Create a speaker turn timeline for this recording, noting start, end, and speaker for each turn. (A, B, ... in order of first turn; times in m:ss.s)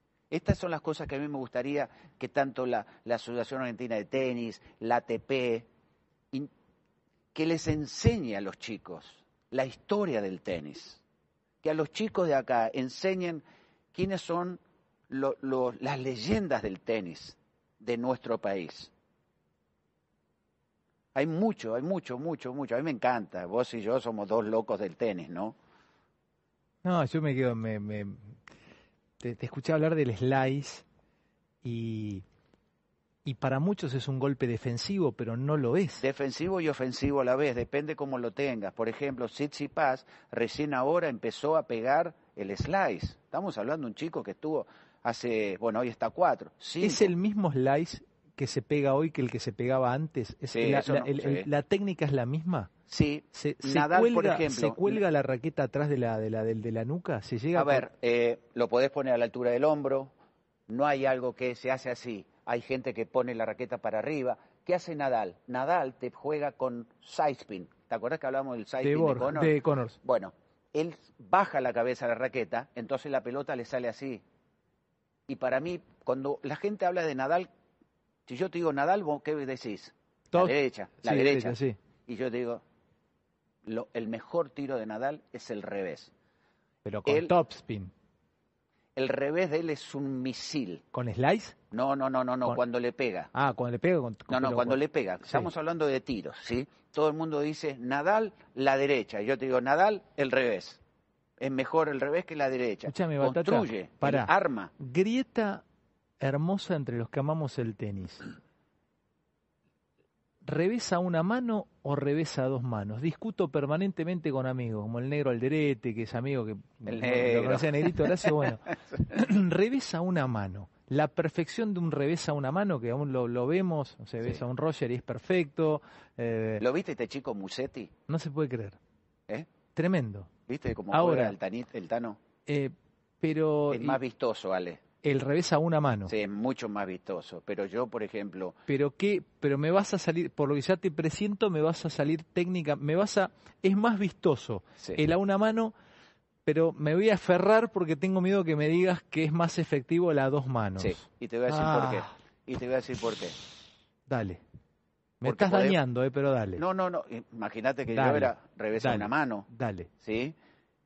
0:00.3-0:05.7 A
0:07.3-0:11.0 A
0:11.6-0:18.9 A
0:21.1-0:25.6 A
0:26.8-0:28.4 B
0:29.2-0:30.8 B
0:31.6-0:32.2 B
0:33.2-0:36.0 B
0:36.0-0:47.1 A
0:46.8-0:52.7 B
0:50.5-0:51.5 A
0:52.9-0:55.0 A
0:53.3-0:57.8 B
0:57.5-1:00.1 A
1:00.7-1:14.2 A
1:08.8-1:10.0 B
1:15.3-1:17.5 A
1:18.2-1:22.6 A
1:20.3-1:21.8 B
1:23.6-1:26.1 A
1:26.8-1:27.9 B
1:27.0-1:27.3 A
1:29.0-1:30.8 A
1:30.9-1:31.6 B
1:31.7-1:33.3 A
1:33.3-1:35.5 B
1:34.3-1:40.8 A
1:41.4-1:44.7 A
1:42.8-1:45.6 B
1:46.2-1:48.3 B
1:50.4-2:06.6 B
1:56.8-1:58.5 A
2:06.6-2:07.9 A
2:08.1-2:08.8 B
2:09.7-2:10.3 B
2:10.5-2:12.2 A
2:10.9-2:11.3 B
2:12.4-2:14.0 B
2:13.7-2:14.8 A
2:15.0-2:16.1 B
2:16.1-2:18.6 A
2:18.7-2:25.7 B
2:26.4-2:32.1 B
2:30.8-2:33.4 A
2:34.1-2:34.4 B
2:35.2-2:36.6 B
2:35.2-2:35.8 A
2:36.6-2:39.5 A
2:37.9-2:39.9 B
2:40.0-2:40.3 A